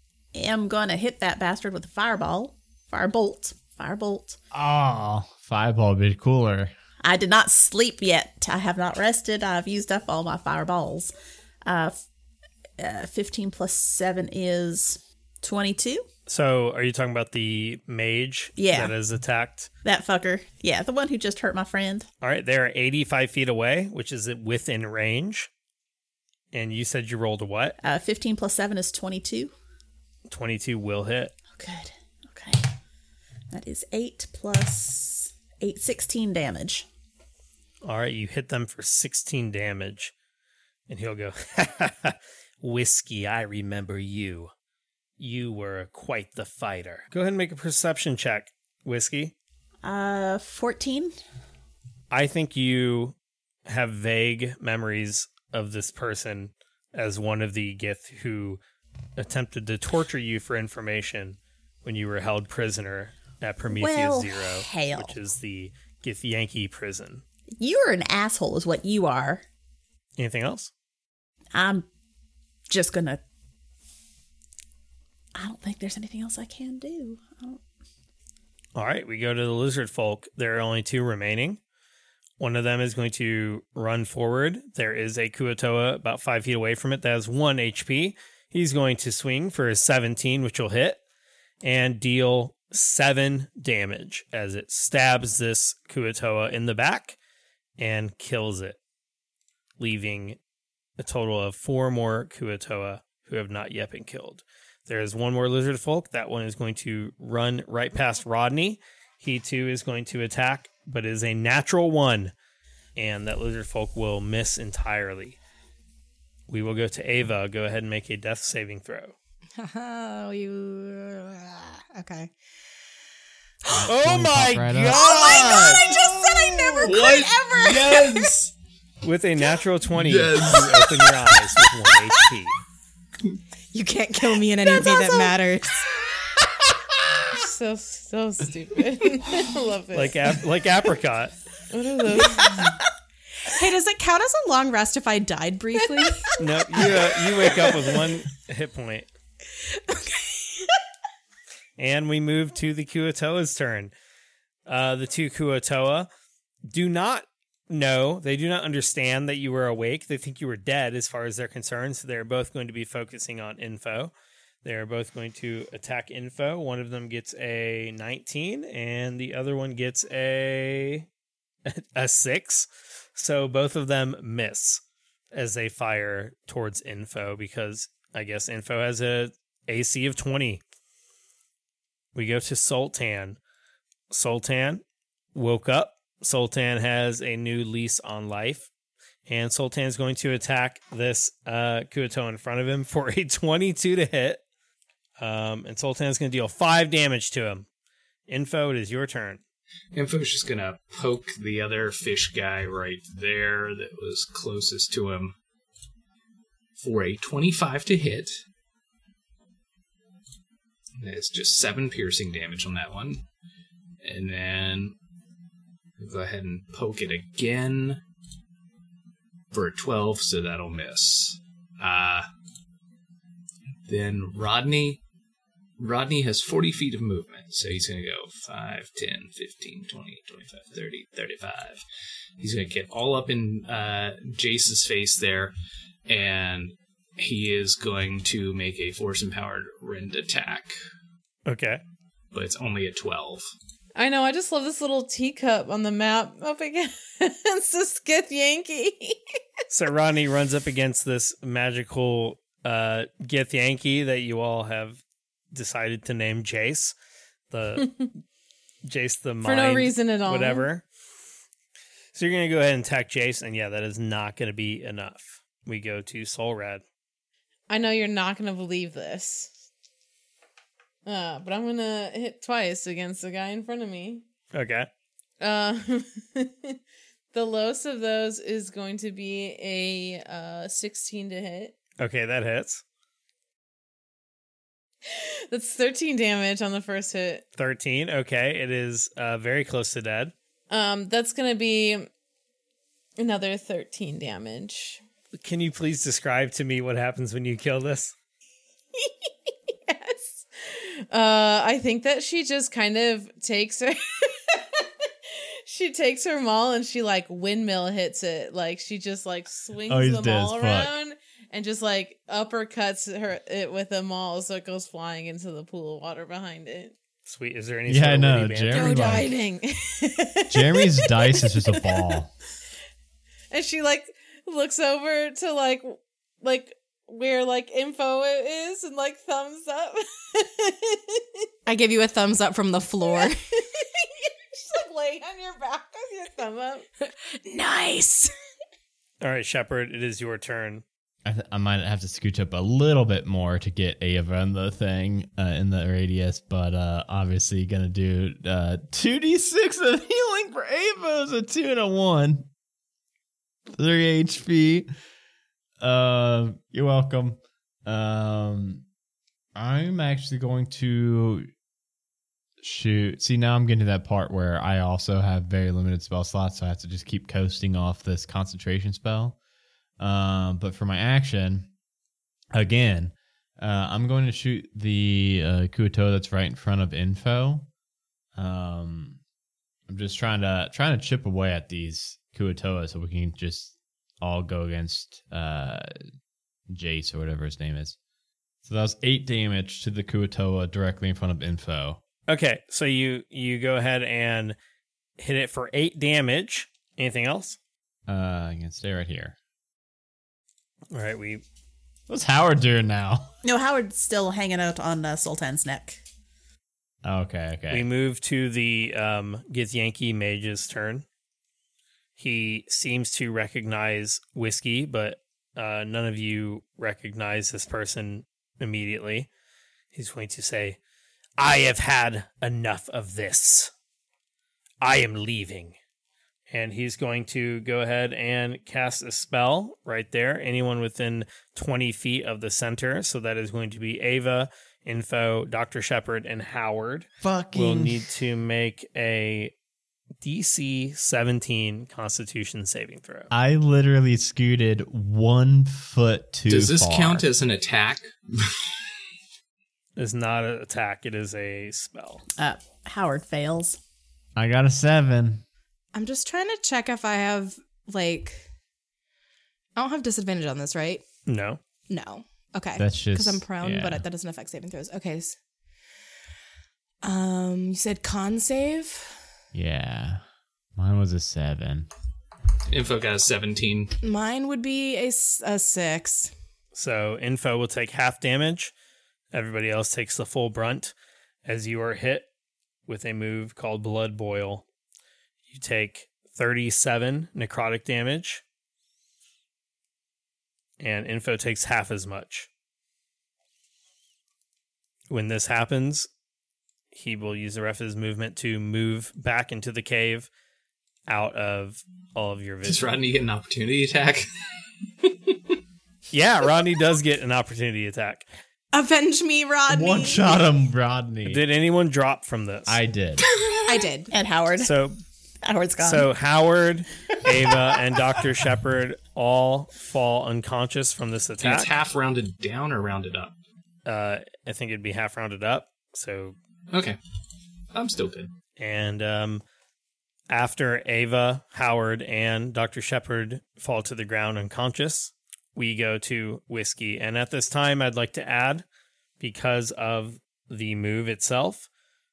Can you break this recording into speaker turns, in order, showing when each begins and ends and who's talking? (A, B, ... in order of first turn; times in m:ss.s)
0:00.3-0:04.4 A
0:04.5-0:06.7 B
0:07.0-0:11.1 A
0:11.7-0:12.0 A
0:12.8-0:16.0 A
0:16.3-0:19.7 C
0:18.6-0:19.0 A
0:19.8-0:22.1 A
0:22.2-0:25.5 C
0:26.5-0:27.8 C
0:27.8-0:29.5 A
0:30.3-0:31.3 C
0:31.6-0:32.6 A
0:33.5-0:36.9 A
0:37.8-0:40.1 C
0:40.9-0:44.5 C
0:45.2-0:49.4 C
0:49.8-0:51.2 A
0:52.1-0:53.2 C
0:53.7-0:58.6 C
0:59.2-1:07.2 C
1:03.7-1:05.2 A
1:07.6-1:09.4 A
1:10.2-1:10.7 C
1:11.6-1:11.9 A
1:12.7-1:13.2 A
1:15.4-1:17.6 A
1:18.8-1:21.6 C
1:22.4-1:31.0 C
1:31.6-1:37.2 C
1:37.8-1:38.8 C
1:39.8-1:40.4 C
1:41.0-1:52.3 C
1:53.0-1:55.4 C
1:56.5-1:59.2 C
1:59.6-2:02.3 D
2:03.6-2:03.9 D
2:03.8-2:05.8 B
2:03.9-2:05.6 C
2:04.9-2:08.3 D
2:05.2-2:06.1 E
2:06.8-2:08.5 E
2:09.0-2:12.6 C
2:09.9-2:11.0 E
2:13.7-2:15.8 D
2:14.7-2:15.0 A
2:17.3-2:20.2 F
2:19.9-2:21.4 C
2:21.7-2:22.7 F
2:22.2-2:22.7 D
2:23.4-2:26.3 D
2:25.8-2:26.1 F
2:26.4-2:29.1 C
2:26.8-2:28.1 D
2:29.5-2:30.8 D
2:31.8-2:33.9 C
2:34.7-2:36.1 C
2:36.7-2:44.1 C
2:44.6-2:51.1 C
2:51.7-2:54.8 C
2:55.3-3:00.6 C
3:02.2-3:03.4 C
3:04.1-3:04.8 C
3:05.3-3:08.7 C
3:09.3-3:14.4 C
3:15.2-3:17.7 C
3:18.3-3:19.4 C
3:19.9-3:25.4 E
3:26.8-3:28.3 E
3:31.0-3:33.2 E
3:34.0-3:35.0 E
3:36.0-3:38.0 E
3:39.5-3:42.3 E
3:43.9-3:45.0 E
3:45.8-3:51.8 E
3:52.4-3:55.5 E
3:56.1-4:00.8 E
4:01.5-4:01.8 C
4:02.3-4:03.5 E
4:04.0-4:09.4 F
4:09.7-4:17.0 C
4:17.5-4:17.9 C
4:18.8-4:20.8 C
4:19.4-4:20.7 F
4:22.2-4:26.8 C
4:27.7-4:29.5 F
4:31.1-4:34.2 F
4:34.5-4:34.9 C
4:35.4-4:36.8 F
4:37.3-4:41.8 F
4:42.0-4:42.8 C
4:45.1-4:47.4 F
4:47.6-4:50.3 C
4:50.7-4:52.1 F
4:53.2-4:55.0 F
4:55.3-4:58.2 C
4:59.0-5:17.0 F
5:09.9-5:10.9 B
5:17.3-5:18.9 C
5:17.9-5:19.3 B
5:18.7-5:19.6 D
5:19.4-5:22.1 F
5:20.5-5:22.3 B
5:23.5-5:31.4 F
5:31.7-5:33.4 D
5:33.2-5:36.9 F
5:37.0-5:38.3 D
5:39.2-5:40.8 C
5:41.2-5:52.5 B
5:53.7-5:54.9 B
5:55.8-5:58.8 B
5:59.6-6:01.5 B
6:02.6-6:09.4 B
6:10.0-6:11.7 B
6:12.5-6:17.7 B
6:18.4-6:19.2 B
6:19.9-6:25.9 B
6:26.7-6:28.0 B
6:28.6-6:32.0 B
6:32.3-6:34.6 C
6:35.2-6:37.6 C
6:38.1-6:39.4 B
6:40.9-6:41.4 C
6:42.1-6:43.3 B
6:43.4-6:46.0 A
6:47.0-6:47.9 B
6:47.7-6:51.1 C
6:52.2-6:59.3 C
6:59.9-7:00.8 C
7:01.4-7:03.7 C
7:04.8-7:05.8 C
7:06.5-7:19.5 C
7:17.2-7:18.1 B
7:20.2-7:23.3 C
7:23.3-7:27.3 B
7:26.5-7:28.6 E
7:30.0-7:32.2 C
7:32.4-7:33.8 A
7:34.4-7:35.4 B
7:35.9-7:38.5 D
7:39.8-7:41.0 D
7:41.3-7:41.6 C
7:41.9-7:45.4 D
7:42.8-7:44.0 B
7:47.0-7:49.3 D
7:49.5-7:50.2 B
7:50.8-7:51.9 B
7:52.7-7:53.9 E
7:54.0-7:56.3 D
7:56.8-7:58.7 C
7:59.3-8:00.9 C
8:01.4-8:02.3 C
8:02.9-8:04.6 C
8:05.5-8:08.4 C
8:10.8-8:12.5 C
8:15.1-8:16.1 C
8:16.9-8:20.3 C
8:21.1-8:22.8 C
8:22.6-8:24.3 E
8:25.0-8:25.6 E
8:26.1-8:28.2 C
8:28.7-8:30.3 D
8:29.7-8:31.4 B
8:31.2-8:32.8 C
8:32.7-8:33.3 B
8:33.7-8:34.1 D
8:34.1-8:34.7 A
8:34.6-8:35.0 C
8:35.4-8:36.1 A
8:35.8-8:41.7 C
8:41.4-8:43.4 E
8:43.9-8:46.4 C
8:46.7-8:47.0 E
8:47.7-8:48.3 E
8:48.6-8:49.4 C
8:50.3-8:58.6 C
8:59.2-9:01.7 C